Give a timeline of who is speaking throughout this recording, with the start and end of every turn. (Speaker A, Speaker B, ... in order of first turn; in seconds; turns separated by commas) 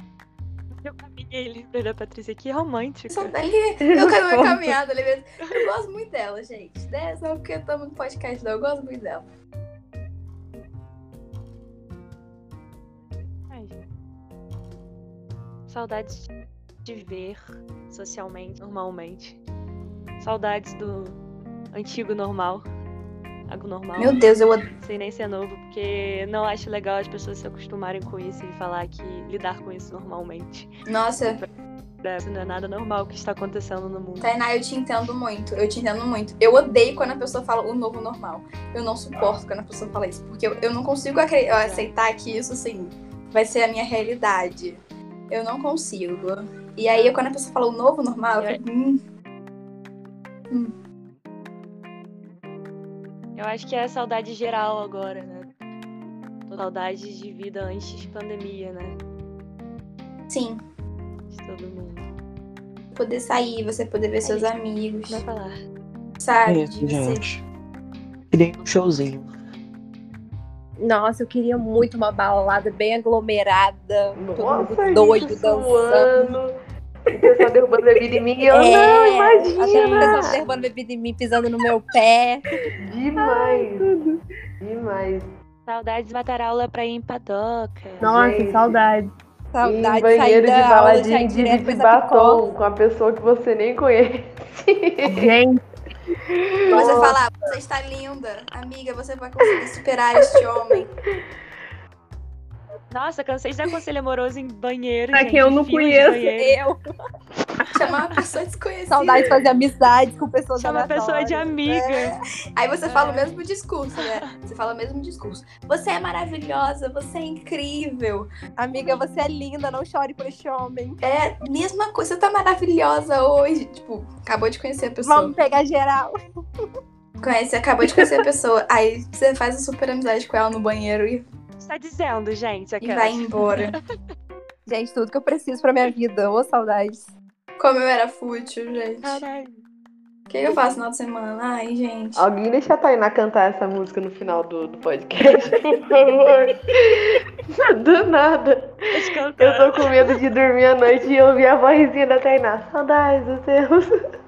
Speaker A: 0.8-3.4, Speaker B: 3.1-9.3, Speaker C: 4.0-4.7, Speaker A: 13.5-13.8, Speaker A: 15.7-16.3, Speaker A: 16.9-19.4, Speaker A: 20.2-21.2, Speaker A: 21.7-22.7, Speaker A: 23.5-24.2, Speaker B: 24.0-24.7, Speaker A: 24.8-30.7, Speaker B: 30.9-31.4, Speaker A: 32.0-34.3, Speaker B: 34.2-49.0, Speaker A: 41.5-41.9, Speaker A: 46.9-47.2, Speaker A: 53.4-55.5, Speaker A: 56.5-59.0, Speaker B: 60.3-60.6, Speaker A: 61.3-62.1, Speaker B: 62.9-65.2, Speaker A: 64.2-64.5, Speaker A: 65.1-65.6, Speaker B: 66.2-67.3, Speaker D: 66.5-67.4, Speaker D: 68.3-69.3, Speaker E: 70.8-76.3, Speaker F: 74.2-76.5, Speaker F: 77.1-80.4, Speaker E: 78.4-82.5, Speaker A: 79.7-80.4, Speaker F: 82.8-83.9, Speaker C: 83.2-84.2, Speaker F: 84.6-85.3, Speaker A: 85.7-88.0, Speaker F: 88.0-88.8, Speaker C: 88.0-89.1, Speaker E: 89.5-92.5, Speaker F: 89.6-95.3, Speaker C: 95.1-95.6, Speaker F: 96.3-97.2, Speaker B: 96.7-100.9, Speaker A: 102.9-106.6, Speaker C: 105.1-106.2, Speaker E: 106.3-106.8, Speaker B: 107.7-109.4, Speaker E: 108.9-112.1, Speaker A: 110.6-112.2, Speaker B: 112.6-118.3, Speaker A: 112.9-113.3, Speaker E: 118.6-121.0, Speaker B: 121.0-125.3, Speaker E: 125.0-126.7, Speaker B: 127.2-131.2, Speaker A: 131.6-133.8, Speaker B: 132.8-133.8, Speaker E: 134.7-137.1, Speaker B: 137.6-139.2, Speaker A: 139.0-139.6, Speaker B: 140.3-142.3, Speaker F: 142.2-154.0, Speaker A: 148.9-150.1